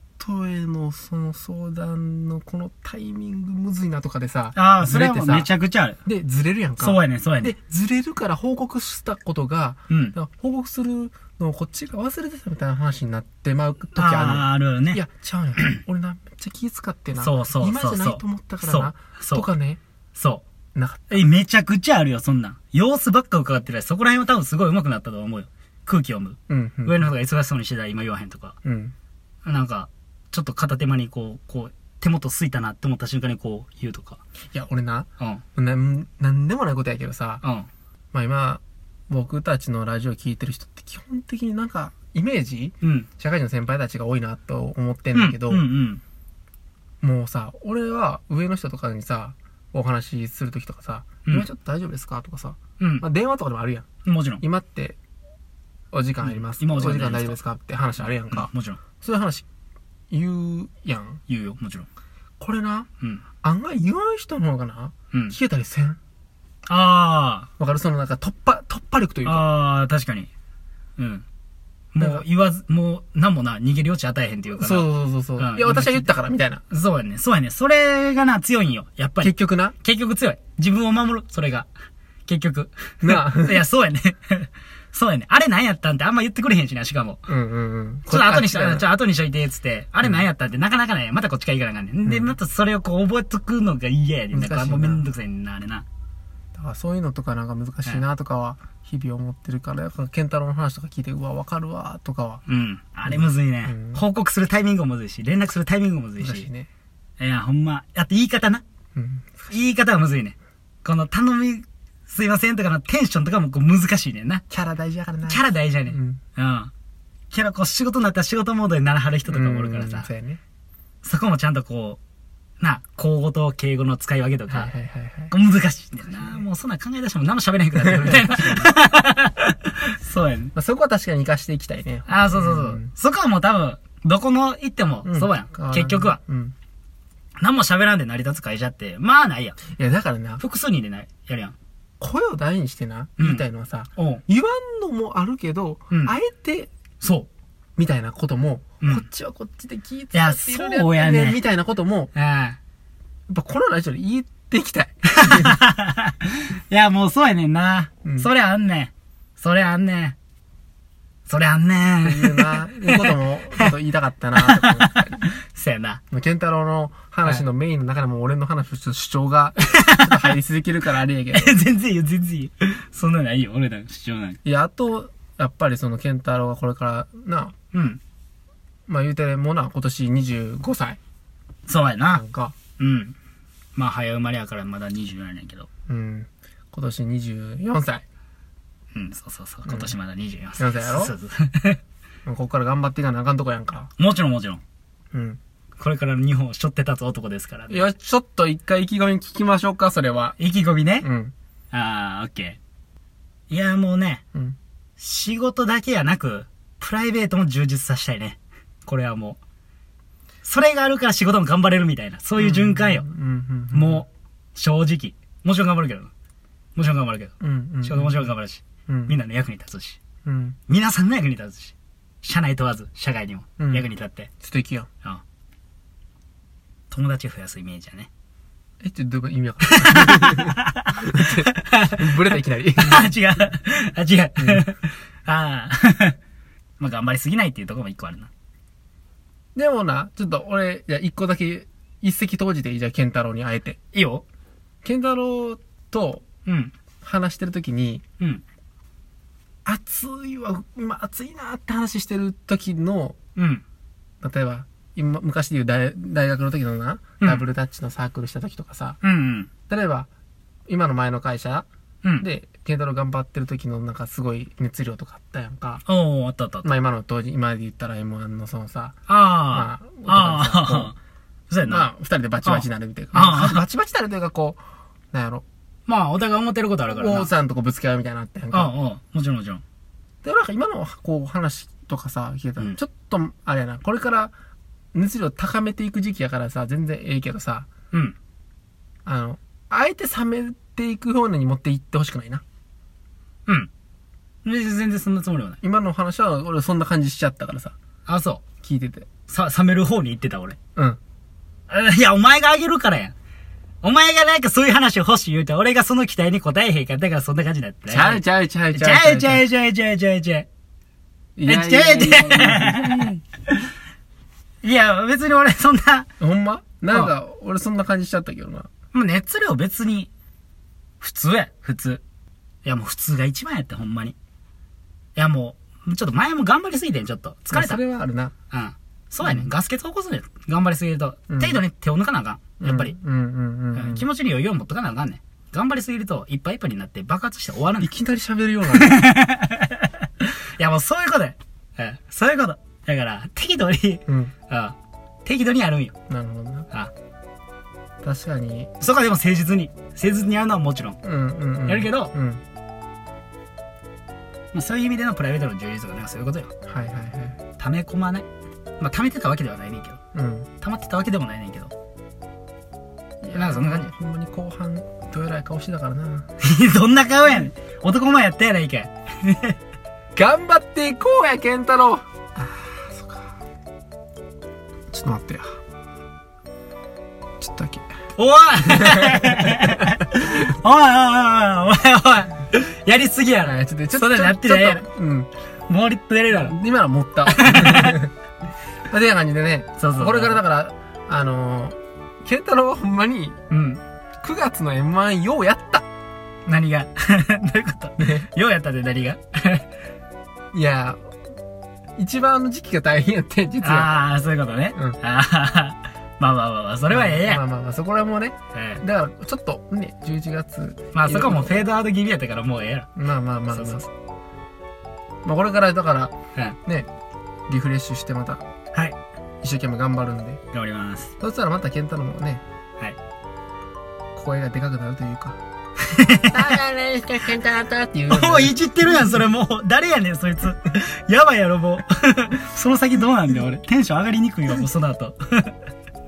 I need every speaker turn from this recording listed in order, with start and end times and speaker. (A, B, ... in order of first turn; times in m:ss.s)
0:00.2-0:05.5 A
0:04.5-0:06.0 B
0:06.0-0:19.8 A
0:06.8-0:07.5 B
0:09.9-0:10.1 B
0:14.0-0:15.0 B
0:17.2-0:19.5 B
0:20.1-0:20.4 B
0:20.7-0:21.3 A
0:21.1-0:28.6 B
0:26.5-0:27.1 A
0:28.6-0:28.9 A
0:29.4-0:34.2 B
0:34.5-0:37.4 A
0:37.4-0:37.7 B
0:38.1-0:45.6 A
0:42.8-0:43.1 B
0:45.1-0:46.0 B
0:47.0-0:53.8 A
0:52.8-0:53.0 B
0:54.0-0:54.4 B
0:54.4-0:55.0 A
0:55.9-0:59.4 A
0:56.2-0:57.4 B
0:58.0-0:58.8 B
1:00.1-1:01.2 A
1:01.3-1:01.9 B
1:02.4-1:02.9 A
1:03.4-1:06.0 A
1:06.7-1:07.5 B
1:07.6-1:09.4 A
1:09.2-1:10.3 B
1:11.0-1:11.2 B
1:11.9-1:16.1 B
1:14.6-1:16.6 A
1:16.7-1:21.7 B
1:19.2-1:19.7 A
1:22.3-1:27.2 B
1:23.0-1:23.6 A
1:27.3-1:28.9 A
1:28.1-1:35.8 B
1:32.0-1:32.3 A
1:34.3-1:35.0 A
1:36.5-1:42.4 A
1:42.5-1:46.5 B
1:43.0-1:44.0 A
1:46.2-1:46.7 A
1:47.2-1:48.6 B
1:48.9-1:49.5 A
1:49.5-1:54.4 B
1:54.5-1:56.2 A
1:55.2-1:56.7 B
1:57.3-2:00.1 B
1:59.3-2:00.4 A
2:01.0-2:02.0 B
2:02.6-2:04.7 B
2:04.5-2:05.3 A
2:05.3-2:10.5 B
2:06.1-2:06.4 A
2:07.7-2:08.7 A
2:10.5-2:12.9 A
2:12.1-2:16.2 B
2:15.0-2:16.5 A
2:17.4-2:19.6 B
2:19.8-2:20.4 A
2:20.4-2:21.6 B
2:22.0-2:26.7 A
2:23.2-2:23.4 B
2:24.0-2:24.2 B
2:25.9-2:26.2 B
2:27.0-2:27.3 B
2:27.8-2:32.1 A
2:30.1-2:31.4 B
2:32.1-2:32.6 B
2:33.3-2:35.6 A
2:35.1-2:40.2 B
2:38.0-2:38.3 A
2:41.3-2:43.7 B
2:42.0-2:45.2 A
2:44.4-2:46.0 B
2:46.1-2:51.6 A
2:49.7-2:50.3 B
2:51.3-2:54.4 B
2:54.4-2:57.5 A
2:57.7-2:58.0 B
2:58.9-3:01.0 A
3:01.7-3:02.2 B
3:02.1-3:02.6 A
3:02.8-3:03.2 B
3:03.8-3:05.7 B
3:05.9-3:08.0 A
3:08.9-3:11.8 B
3:09.7-3:09.9 A
3:10.6-3:11.1 A
3:12.2-3:13.9 A
3:14.0-3:14.6 B
3:15.1-3:15.4 A
3:15.8-3:17.9 B
3:17.7-3:20.4 A
3:20.4-3:21.1 B
3:21.0-3:21.3 A
3:21.7-3:22.6 B
3:23.5-3:24.2 B
3:25.0-3:29.4 B
3:30.4-3:33.0 B
3:32.4-3:34.0 A
3:33.7-3:36.1 B
3:36.7-3:40.0 B
3:37.4-3:38.2 A
3:38.9-3:39.2 A
3:40.2-3:40.6 A
3:40.7-3:44.3 B
3:43.6-3:43.8 A
3:44.4-3:44.9 A
3:46.9-3:48.1 B
3:48.8-3:53.1 A
3:49.7-3:52.0 B
3:52.8-3:56.2 B
3:56.8-3:58.3 B
3:59.5-4:03.8 A
4:03.9-4:04.2 B
4:04.8-4:06.2 A
4:06.4-4:06.7 B
4:07.0-4:08.0 A
4:09.6-4:13.2 A
4:13.4-4:13.6 B
4:14.2-4:19.0 A
4:19.0-4:19.5 B
4:19.7-4:20.1 A
4:20.7-4:21.7 A
4:22.2-4:25.8 A
4:25.8-4:26.7 B
4:26.6-4:30.9 A
4:29.1-4:31.0 B
4:31.5-4:31.9 B
4:31.6-4:34.6 A
4:32.4-4:33.6 B
4:35.1-4:35.4 A
4:35.9-4:37.3 B
4:36.9-4:38.7 A
4:38.5-4:39.6 B
4:40.2-4:44.3 A
4:44.9-4:47.7 A
4:49.0-4:52.4 A
4:54.4-4:55.6 B
4:55.6-4:57.7 A
4:58.0-4:58.4 B
4:58.6-4:59.1 A
4:59.3-5:00.6 B
5:01.7-5:03.1 B
5:03.8-5:10.5 B
5:07.9-5:09.4 A
5:11.4-5:13.2 A
5:11.4-5:13.2 B
5:14.6-5:16.1 B
5:16.2-5:18.7 A
5:18.9-5:20.1 B
5:21.0-5:22.0 B
5:22.6-5:24.2 B
5:25.2-5:27.8 B
5:27.5-5:28.3 A
5:28.5-5:32.9 B
5:29.2-5:29.5 A
5:31.3-5:31.6 A
5:32.6-5:34.0 A
5:33.7-5:37.9 B
5:37.8-5:39.0 A
5:38.8-5:45.9 B
5:44.1-5:44.3 A
5:46.1-5:46.7 A
5:48.0-5:48.7 A
5:48.8-5:51.0 B
5:51.0-5:52.4 A
5:51.7-5:52.1 B
5:54.5-5:56.5 B
5:56.6-5:57.4 A
5:57.6-5:58.2 B
5:58.8-6:00.0 B
6:00.1-6:00.5 A
6:00.6-6:01.7 B
6:03.2-6:06.3 A
6:03.3-6:03.9 B
6:06.4-6:09.6 B
6:10.1-6:13.3 A
6:14.9-6:15.5 A
6:17.4-6:17.8 A
6:18.2-6:24.8 B
6:18.7-6:19.9 A
6:23.4-6:25.3 A
6:25.7-6:26.6 B
6:26.4-6:28.1 A
6:27.3-6:28.0 B
6:28.9-6:33.4 A
6:29.8-6:30.4 B
6:33.5-6:33.8 B
6:34.2-6:35.8 A
6:36.4-6:39.7 B
6:38.0-6:38.3 A
6:40.5-6:41.1 A
6:42.0-6:43.9 A
6:43.6-6:47.4 B
6:46.9-6:51.6 A
6:48.5-6:48.8 B
6:50.9-6:52.9 B
6:53.0-6:53.9 A
6:53.5-6:53.8 B
6:55.2-6:56.1 A
6:57.5-6:58.4 A
6:59.4-7:00.4 A
7:00.5-7:01.1 B
7:01.2-7:02.4 A
7:04.1-7:05.4 A
7:05.9-7:06.6 B
7:06.3-7:09.1 A
7:08.1-7:15.5 B